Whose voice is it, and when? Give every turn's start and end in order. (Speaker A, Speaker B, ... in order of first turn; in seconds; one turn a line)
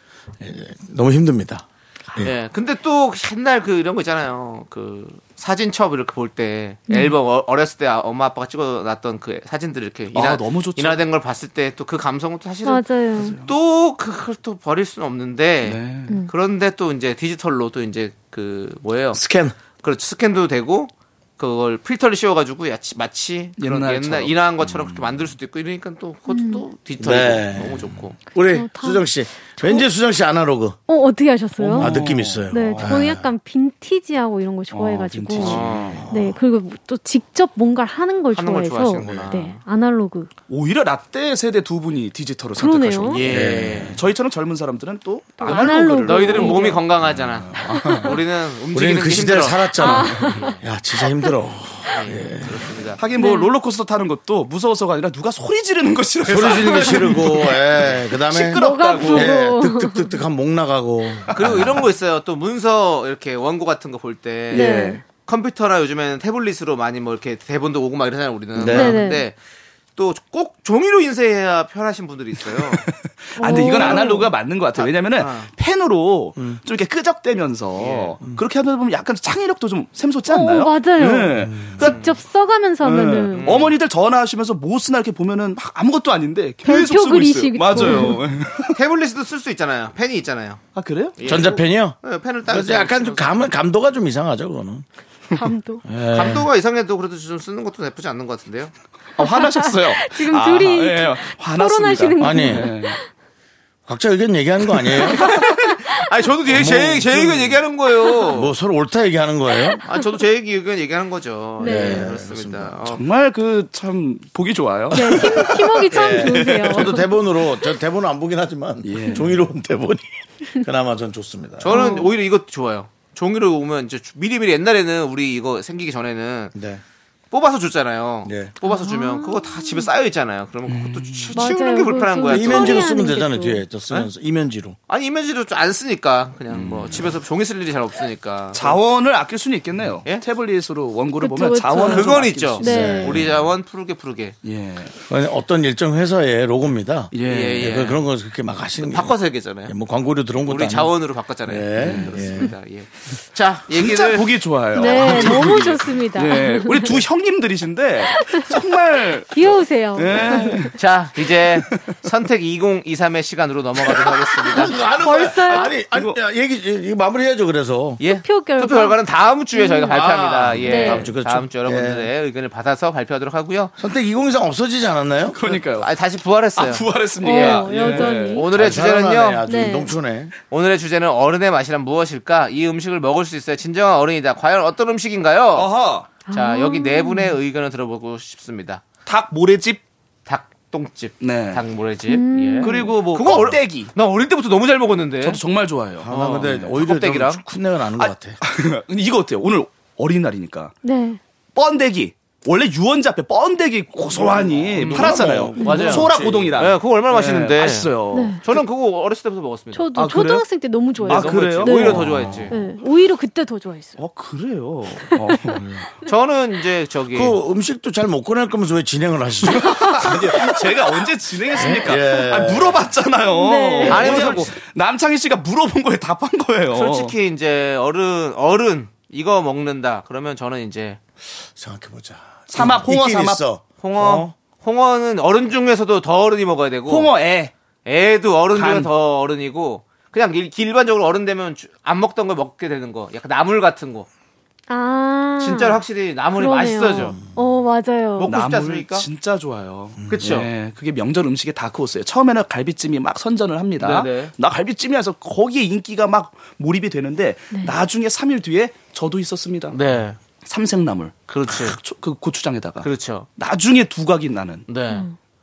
Speaker A: 0.4-2.3
Speaker B: 2.2-12.9
Speaker C: 6.9-7.1
Speaker D: 10.1-11.0
Speaker C: 12.6-13.4
Speaker D: 13.2-13.4
Speaker B: 13.4-19.2
Speaker D: 15.6-16.1
Speaker A: 19.1-19.6
Speaker B: 19.8-28.2
Speaker D: 23.6-24.4
Speaker C: 26.3-26.6
Speaker A: 27.0-30.8
Speaker C: 28.4-29.9
Speaker C: 30.9-40.3
Speaker D: 31.6-33.0
Speaker A: 31.8-33.2
Speaker D: 34.7-36.0
Speaker B: 35.4-36.0
Speaker A: 36.0-36.4
Speaker B: 38.3-39.6
Speaker D: 40.5-48.1
Speaker C: 42.5-43.2
Speaker B: 43.0-44.0
Speaker A: 43.2-43.9
Speaker C: 45.4-46.8
Speaker B: 45.4-50.5
Speaker C: 47.7-48.0
Speaker A: 48.7-52.5
Speaker C: 49.8-50.5
Speaker B: 51.9-53.0
Speaker D: 53.0-59.4
Speaker C: 53.1-53.5
Speaker A: 56.3-61.8
Speaker C: 56.8-57.4
Speaker C: 58.5-60.2
Speaker B: 61.3-69.4
Speaker D: 64.5-65.0
Speaker C: 64.5-65.0
Speaker A: 68.5-69.0
Speaker C: 68.7-69.2
Speaker B: 70.0-72.8
Speaker D: 72.7-81.9
Speaker C: 73.4-74.3
Speaker B: 73.8-74.1
Speaker B: 74.8-75.5
Speaker B: 77.8-78.2
Speaker C: 80.2-83.5
Speaker A: 81.5-81.8
Speaker B: 81.8-82.1
Speaker D: 82.8-88.8
Speaker B: 83.3-83.7
Speaker C: 86.6-88.2
Speaker B: 88.7-90.6
Speaker D: 90.7-91.2
Speaker B: 91.2-93.5
Speaker A: 91.2-94.8
Speaker C: 95.3-95.8
Speaker A: 95.8-96.5
Speaker B: 96.1-98.7
Speaker D: 99.2-103.0
Speaker C: 99.2-103.0
Speaker A: 102.2-102.7
Speaker A: 103.9-105.3
Speaker B: 105.1-108.5
Speaker A: 106.5-107.6
Speaker A: 108.3-109.8
Speaker C: 109.5-109.8
Speaker B: 109.8-113.0
Speaker C: 111.6-112.1
Speaker A: 111.6-112.8
Speaker D: 112.9-116.8
Speaker C: 114.9-117.1
Speaker A: 115.9-121.8
Speaker D: 118.8-119.4
Speaker B: 121.6-126.5
Speaker C: 121.7-122.1
Speaker A: 126.5-126.8
Speaker B: 127.3-132.9
Speaker A: 128.2-128.5
Speaker C: 128.6-129.9
Speaker D: 130.7-131.4
Speaker C: 131.3-133.6
Speaker A: 132.3-134.8
Speaker B: 134.9-138.8
Speaker D: 136.5-137.2
Speaker D: 138.5-143.1
Speaker C: 141.2-143.2
Speaker B: 141.8-144.3
Speaker A: 142.7-143.3
Speaker D: 144.4-144.9
Speaker A: 145.1-150.9
Speaker D: 147.1-147.7
Speaker B: 147.2-148.0
Speaker B: 148.8-149.7
Speaker B: 150.4-154.3
Speaker A: 151.4-152.5
Speaker D: 151.8-152.3
Speaker D: 153.7-160.7
Speaker C: 154.7-157.0
Speaker C: 158.1-160.7
Speaker B: 160.7-164.8
Speaker A: 164.5-168.0
Speaker C: 164.9-165.8
Speaker D: 165.9-166.2
Speaker B: 168.0-173.7
Speaker C: 168.1-169.0
Speaker C: 169.5-170.1
Speaker A: 169.9-172.1
Speaker C: 170.6-171.1
Speaker A: 173.8-175.4
Speaker D: 175.3-175.9
Speaker B: 175.8-179.4
Speaker D: 176.6-178.4
Speaker C: 177.2-178.5
Speaker A: 178.5-180.3
Speaker C: 179.4-179.9
Speaker B: 180.5-185.7
Speaker D: 185.5-186.1
Speaker C: 186.2-187.4
Speaker B: 186.3-188.8
Speaker D: 189.1-189.8
Speaker B: 190.2-195.4
Speaker D: 191.2-191.6
Speaker C: 192.1-193.0
Speaker D: 192.6-193.9
Speaker D: 195.2-196.6
Speaker A: 196.0-198.4
Speaker B: 196.1-197.4
Speaker D: 198.0-200.7
Speaker C: 200.8-201.2
Speaker D: 201.5-208.6
Speaker A: 204.1-206.0
Speaker B: 204.7-209.9
Speaker C: 205.6-206.0
Speaker C: 208.1-208.4
Speaker C: 209.7-214.0
Speaker D: 209.9-212.4
Speaker B: 211.0-212.6
Speaker D: 214.0-215.6
Speaker C: 215.1-215.4
Speaker B: 216.1-217.4
Speaker A: 217.1-220.5
Speaker D: 219.5-227.1
Speaker C: 219.6-220.1
Speaker C: 221.6-221.8
Speaker A: 221.6-222.9
Speaker C: 223.2-224.4
Speaker B: 223.8-224.5
Speaker B: 226.7-231.0
Speaker A: 231.5-233.6
Speaker D: 232.5-233.4
Speaker B: 233.8-237.1
Speaker D: 233.9-234.3
Speaker D: 236.9-237.5
Speaker B: 237.8-244.1
Speaker D: 238.5-238.9
Speaker C: 244.7-245.8
Speaker B: 245.4-247.2
Speaker C: 246.3-248.3
Speaker B: 248.2-249.1
Speaker D: 248.2-259.8
Speaker B: 250.1-250.5
Speaker B: 253.8-254.3
Speaker C: 257.5-257.8
Speaker B: 259.7-260.2
Speaker D: 260.4-264.6
Speaker B: 261.3-261.8
Speaker B: 262.8-263.3
Speaker B: 264.7-265.1
Speaker C: 264.9-265.1